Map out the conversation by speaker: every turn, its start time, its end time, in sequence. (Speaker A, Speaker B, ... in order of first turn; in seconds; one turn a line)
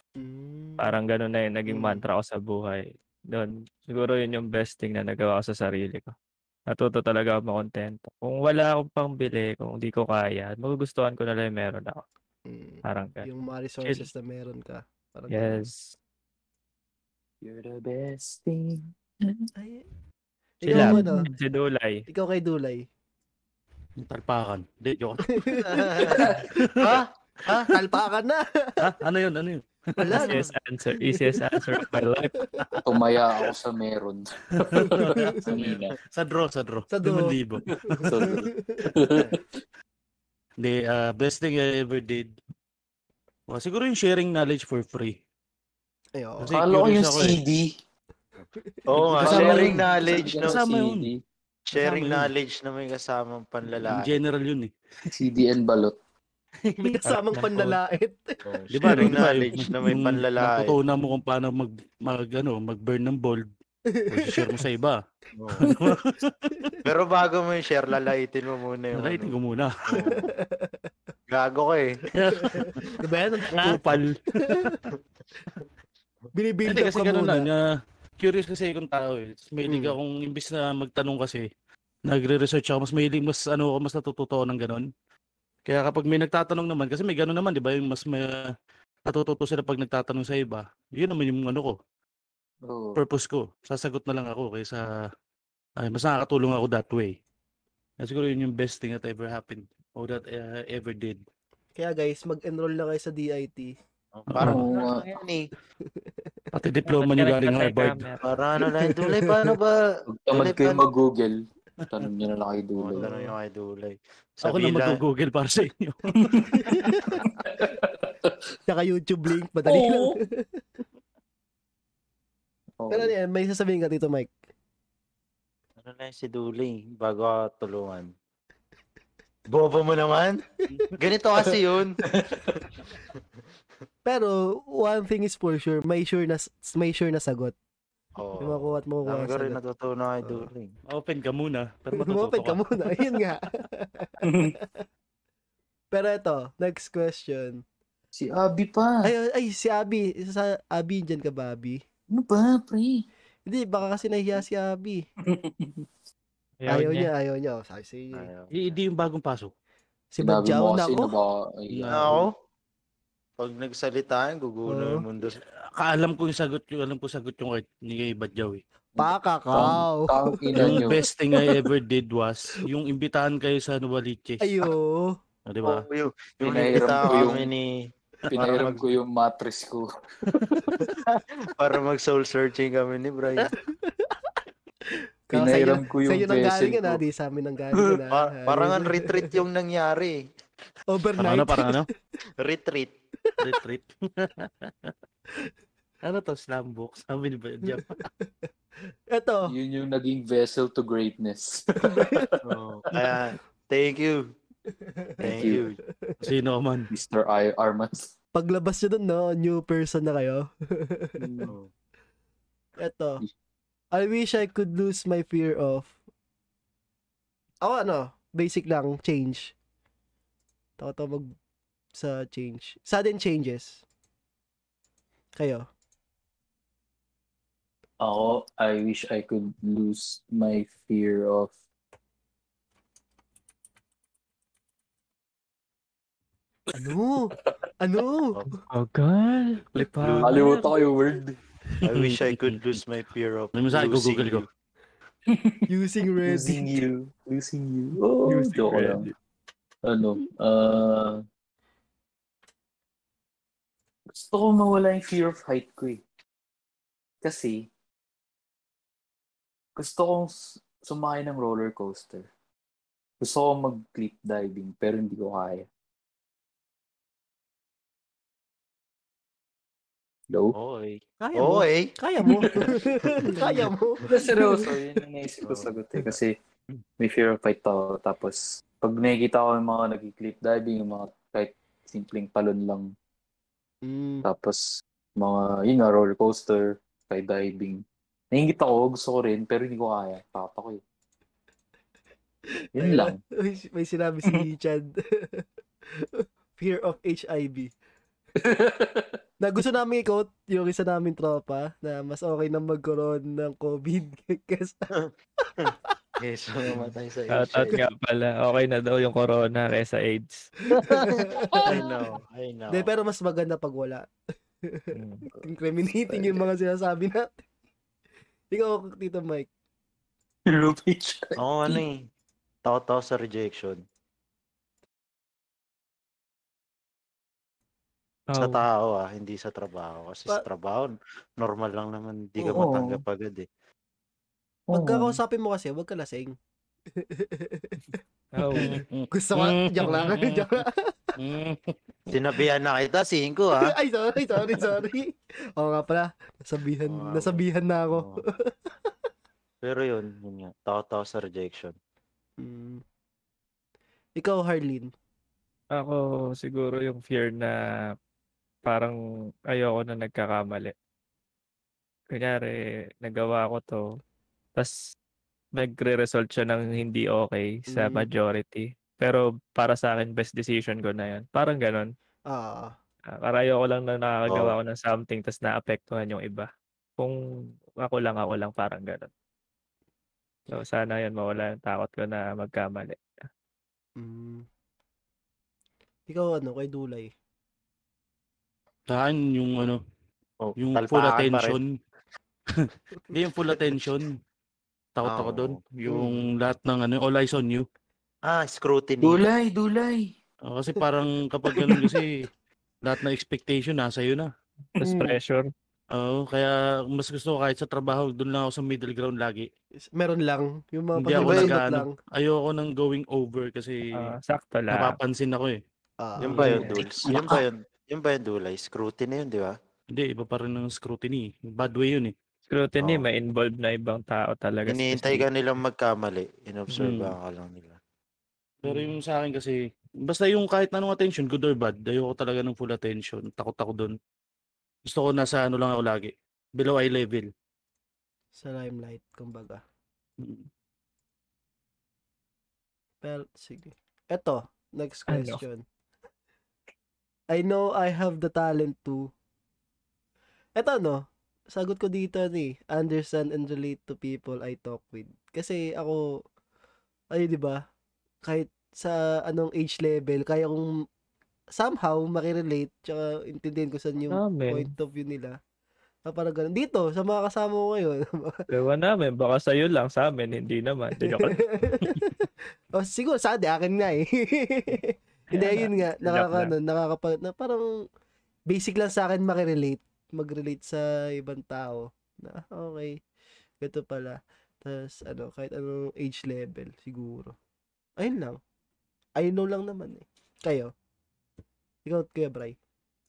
Speaker A: 0.2-1.0
Speaker B: 0.8-6.1
Speaker A: 1.7-2.0
Speaker B: 6.7-12.0
Speaker A: 12.5-15.6
Speaker B: 12.8-13.3
Speaker B: 15.3-15.9
Speaker C: 17.4-19.5
Speaker A: 19.6-19.8
Speaker A: 20.6-21.2
Speaker B: 20.6-22.1
Speaker D: 20.7-21.0
Speaker A: 22.1-22.9
Speaker E: 24.0-25.4
Speaker A: 25.3-26.7
Speaker D: 25.5-27.7
Speaker E: 26.1-27.0
Speaker A: 27.5-28.8
Speaker E: 28.8-30.2
Speaker A: 30.0-30.4
Speaker B: 30.1-32.4
Speaker D: 30.2-30.5
Speaker A: 32.4-32.9
Speaker C: 32.8-35.9
Speaker E: 34.5-38.5
Speaker A: 34.8-35.4
Speaker A: 36.9-39.4
Speaker C: 37.9-39.2
Speaker E: 40.6-42.4
Speaker E: 43.5-45.2
Speaker A: 46.1-46.6
Speaker E: 46.4-47.4
Speaker C: 46.5-47.7
Speaker D: 48.9-50.6
Speaker E: 48.9-49.8
Speaker C: 49.2-51.2
Speaker E: 50.4-51.1
Speaker D: 51.7-54.2
Speaker E: 51.7-52.2
Speaker E: 53.8-54.7
Speaker C: 55.1-55.9
Speaker A: 56.8-59.1
Speaker B: 57.0-57.8
Speaker D: 58.4-60.8
Speaker E: 58.7-63.5
Speaker A: 63.9-64.5
Speaker E: 64.1-65.0
Speaker D: 65.4-65.7
Speaker E: 65.6-66.5
Speaker D: 66.8-69.3
Speaker E: 68.9-70.1
Speaker D: 69.9-70.3
Speaker A: 69.9-70.8
Speaker D: 71.3-72.1
Speaker E: 72.1-72.8
Speaker A: 72.3-73.8
Speaker E: 73.5-74.8
Speaker A: 74.4-74.8
Speaker A: 76.3-77.5
Speaker E: 76.7-77.7
Speaker E: 78.2-81.5
Speaker A: 79.7-80.0
Speaker E: 82.0-84.9
Speaker E: 85.7-88.5
Speaker E: 89.0-91.8
Speaker C: 92.7-93.0
Speaker E: 93.0-95.1
Speaker E: 95.8-97.1
Speaker E: 98.0-101.2
Speaker A: 101.8-103.7
Speaker D: 104.1-105.5
Speaker E: 104.3-104.6
Speaker C: 104.4-105.1
Speaker B: 104.8-105.2
Speaker E: 106.5-108.1
Speaker B: 106.9-108.2
Speaker D: 108.2-110.8
Speaker A: 108.6-109.4
Speaker C: 110.2-111.4
Speaker C: 111.9-113.0
Speaker D: 112.8-115.0
Speaker A: 113.0-113.3
Speaker E: 114.4-116.9
Speaker C: 116.2-116.7
Speaker A: 116.5-117.1
Speaker C: 117.2-118.3
Speaker A: 118.7-120.5
Speaker C: 119.7-120.1
Speaker C: 122.8-123.1
Speaker A: 122.9-124.3
Speaker D: 125.8-128.1
Speaker D: 129.5-130.4
Speaker D: 130.9-132.0
Speaker C: 132.1-132.7
Speaker A: 134.1-137.5
Speaker D: 138.2-140.7
Speaker A: 138.4-139.6
Speaker A: 140.2-140.5
Speaker E: 140.9-142.6
Speaker A: 142.0-144.8
Speaker C: 144.2-144.5
Speaker A: 145.9-147.6
Speaker C: 148.1-149.1
Speaker A: 149.0-151.8
Speaker C: 152.1-153.1
Speaker A: 153.4-155.0
Speaker C: 155.2-155.9
Speaker B: 156.6-157.1
Speaker A: 156.7-158.3
Speaker D: 158.1-158.8
Speaker E: 158.5-159.5
Speaker A: 160.1-161.1
Speaker C: 160.2-162.2
Speaker E: 161.7-162.2
Speaker D: 161.9-162.3
Speaker D: 163.4-165.4
Speaker A: 164.7-165.0
Speaker E: 165.7-168.6
Speaker A: 168.9-170.8
Speaker C: 169.5-171.0
Speaker E: 170.6-174.7
Speaker A: 174.4-175.2
Speaker E: 175.5-175.8
Speaker D: 175.6-178.8
Speaker C: 176.4-177.5
Speaker E: 178.3-178.8
Speaker C: 178.3-179.9
Speaker E: 180.3-180.8
Speaker D: 181.0-183.5
Speaker A: 183.7-184.3
Speaker A: 185.3-189.3
Speaker C: 185.3-187.0
Speaker D: 188.1-190.2
Speaker A: 190.9-191.9
Speaker E: 191.2-191.9
Speaker D: 192.4-192.9
Speaker E: 193.4-194.9
Speaker E: 196.0-198.1
Speaker A: 197.7-198.3
Speaker A: 199.1-199.5
Speaker C: 199.5-202.3
Speaker A: 201.8-202.3
Speaker D: 202.4-204.3
Speaker A: 204.8-206.2
Speaker D: 205.2-205.8
Speaker C: 205.2-205.6
Speaker E: 206.2-206.9
Speaker C: 206.9-208.1
Speaker A: 208.3-211.5
Speaker A: 212.8-213.2
Speaker A: 213.9-215.9
Speaker A: 217.6-219.5
Speaker A: 220.8-221.3
Speaker A: 221.9-223.8
Speaker A: 225.3-225.7
Speaker C: 228.0-231.5
Speaker A: 236.7-238.6
Speaker B: 238.7-240.8
Speaker D: 239.9-240.4
Speaker C: 240.2-241.4
Speaker D: 241.8-244.5
Speaker E: 241.9-242.6
Speaker E: 243.6-244.4
Speaker C: 245.3-245.6
Speaker A: 245.7-246.7
Speaker C: 246.2-249.0
Speaker B: 248.3-249.1
Speaker C: 249.8-251.2
Speaker C: 254.1-256.0
Speaker C: 257.2-257.7
Speaker C: 259.8-262.3
Speaker C: 263.2-265.7
Speaker C: 270.3-270.5
Speaker D: 270.5-271.9
Speaker A: 271.2-274.6
Speaker C: 272.2-272.7
Speaker C: 274.1-276.3
Speaker D: 275.4-275.7
Speaker C: 277.0-282.9
Speaker A: 283.8-284.2
Speaker C: 284.2-290.8
Speaker A: 292.7-295.4
Speaker C: 292.8-293.2
Speaker A: 296.0-297.7
Speaker C: 298.4-299.2
Speaker A: 299.4-304.8
Speaker D: 304.9-307.8
Speaker A: 305.4-305.7
Speaker B: 307.3-310.5
Speaker D: 310.7-312.9
Speaker A: 310.8-311.9
Speaker A: 312.7-314.1
Speaker A: 314.7-317.4
Speaker B: 314.9-315.2
Speaker A: 318.5-319.5
Speaker C: 320.5-321.8
Speaker D: 321.4-322.0
Speaker D: 322.6-323.8
Speaker B: 328.3-328.6
Speaker D: 328.4-333.5
Speaker C: 332.4-333.0
Speaker C: 334.7-335.2
Speaker A: 334.7-336.4
Speaker A: 337.0-338.0
Speaker B: 338.3-338.8
Speaker A: 338.5-340.9
Speaker E: 338.5-340.6
Speaker E: 341.2-341.7
Speaker D: 342.1-343.7
Speaker A: 343.6-348.7
Speaker D: 346.9-348.2
Speaker D: 349.6-351.7
Speaker A: 352.4-352.8
Speaker A: 354.2-354.9
Speaker B: 355.7-357.5
Speaker B: 358.6-358.9
Speaker B: 359.5-360.7
Speaker B: 362.1-363.8
Speaker B: 365.6-371.9
Speaker A: 367.7-368.1
Speaker A: 372.3-372.7
Speaker B: 373.2-377.1
Speaker D: 374.3-374.6
Speaker B: 377.8-379.1
Speaker B: 380.5-383.0
Speaker A: 384.0-384.5
Speaker A: 386.1-387.1
Speaker E: 388.9-389.8
Speaker D: 390.4-391.6
Speaker E: 390.6-391.7
Speaker E: 392.5-394.2
Speaker E: 394.9-397.6
Speaker D: 395.0-395.6
Speaker D: 398.2-399.2
Speaker C: 399.0-400.1
Speaker E: 400.5-402.2
Speaker E: 402.8-404.3
Speaker B: 404.8-405.5
Speaker A: 404.8-405.2
Speaker E: 405.9-409.5
Speaker A: 409.9-411.9
Speaker E: 410.9-414.1
Speaker D: 411.2-411.5
Speaker B: 413.9-415.0
Speaker E: 414.7-415.6
Speaker A: 416.0-416.7
Speaker D: 416.2-419.6
Speaker B: 416.3-416.9
Speaker E: 419.9-422.1
Speaker B: 422.5-425.2
Speaker D: 424.7-427.8
Speaker E: 426.8-427.1
Speaker E: 428.6-433.9
Speaker B: 428.6-429.0
Speaker E: 434.9-437.3
Speaker A: 438.4-439.6
Speaker E: 440.2-440.5
Speaker A: 443.0-445.6
Speaker B: 445.1-445.4
Speaker A: 447.3-449.1
Speaker A: 450.6-456.2
Speaker A: 457.1-457.6
Speaker A: 458.2-460.7
Speaker A: 461.5-465.4
Speaker B: 464.1-464.7
Speaker A: 466.0-468.4
Speaker B: 468.5-471.5
Speaker A: 471.0-477.7
Speaker B: 475.3-476.5
Speaker A: 478.5-483.0
Speaker A: 483.6-487.3
Speaker A: 488.0-488.4
Speaker A: 489.2-490.7
Speaker A: 491.8-492.6